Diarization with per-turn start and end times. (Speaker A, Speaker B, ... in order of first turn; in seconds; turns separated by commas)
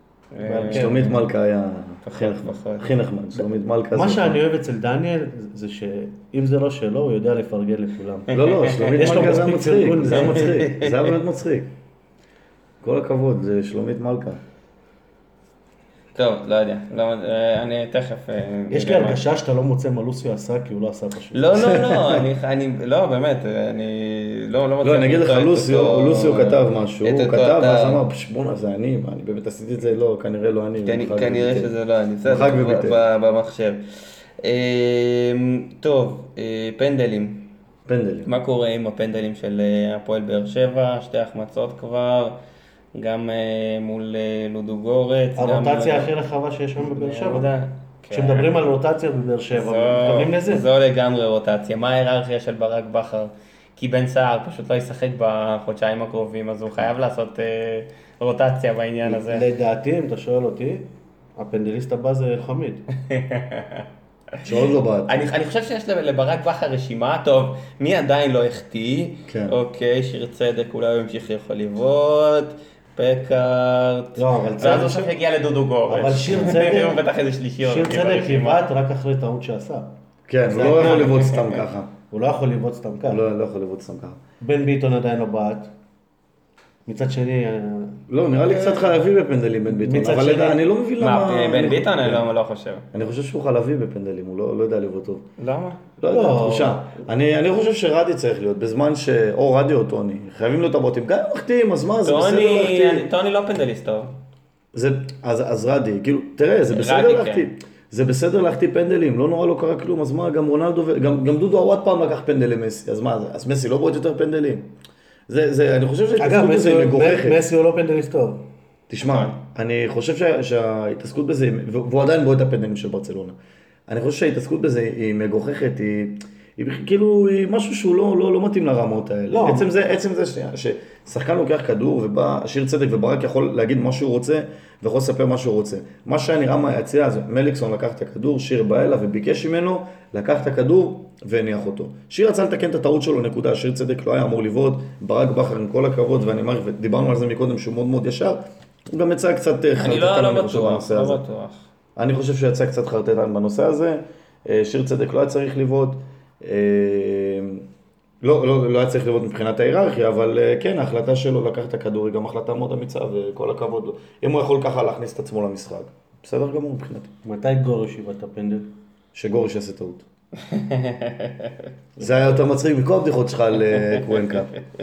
Speaker A: 0.3-1.0, Speaker B: 0.4-1.2, Speaker C: 0.7-4.4, Speaker A: 2.0-3.0, Speaker B: 3.9-8.4, Speaker C: 8.3-11.7, Speaker A: 8.3-9.4, Speaker B: 9.0-10.6, Speaker A: 10.1-11.2, Speaker C: 12.8-14.4, Speaker A: 16.1-19.2, Speaker B: 18.7-21.7, Speaker A: 21.3-28.0, Speaker C: 21.6-22.2, Speaker C: 24.8-31.7, Speaker A: 30.8-33.8, Speaker C: 32.2-33.0, Speaker A: 34.4-37.5, Speaker C: 37.9-38.3, Speaker A: 38.2-42.4, Speaker A: 42.9-46.1, Speaker B: 45.4-47.5, Speaker A: 46.8-48.6, Speaker B: 48.1-50.7, Speaker A: 49.5-59.5, Speaker B: 59.0-62.8, Speaker A: 63.0-64.5, Speaker C: 64.4-65.2, Speaker A: 65.1-78.6, Speaker C: 69.3-69.6, Speaker B: 74.2-75.1, Speaker B: 75.9-77.0, Speaker B: 77.6-79.9, Speaker C: 80.3-81.9, Speaker B: 80.5-81.3, Speaker A: 80.7-81.6, Speaker B: 82.1-83.2, Speaker C: 83.1-84.2, Speaker B: 84.4-85.7, Speaker B: 86.9-88.0, Speaker C: 88.1-92.2, Speaker B: 89.7-90.6, Speaker A: 91.0-92.9, Speaker C: 92.9-95.2, Speaker A: 95.4-95.8, Speaker C: 96.0-103.1, Speaker B: 96.1-97.0, Speaker A: 102.0-104.1, Speaker C: 104.7-114.7, Speaker A: 106.7-107.5, Speaker C: 115.3-117.4, Speaker B: 116.2-118.5, Speaker C: 118.9-123.4, Speaker A: 119.0-119.3, Speaker C: 123.9-151.2, Speaker B: 129.3-129.7, Speaker A: 149.8-151.7, Speaker C: 152.0-157.6, Speaker C: 158.2-167.1, Speaker B: 167.2-168.7, Speaker C: 169.1-170.1, Speaker A: 170.4-171.7, Speaker C: 172.0-174.5, Speaker A: 173.7-174.4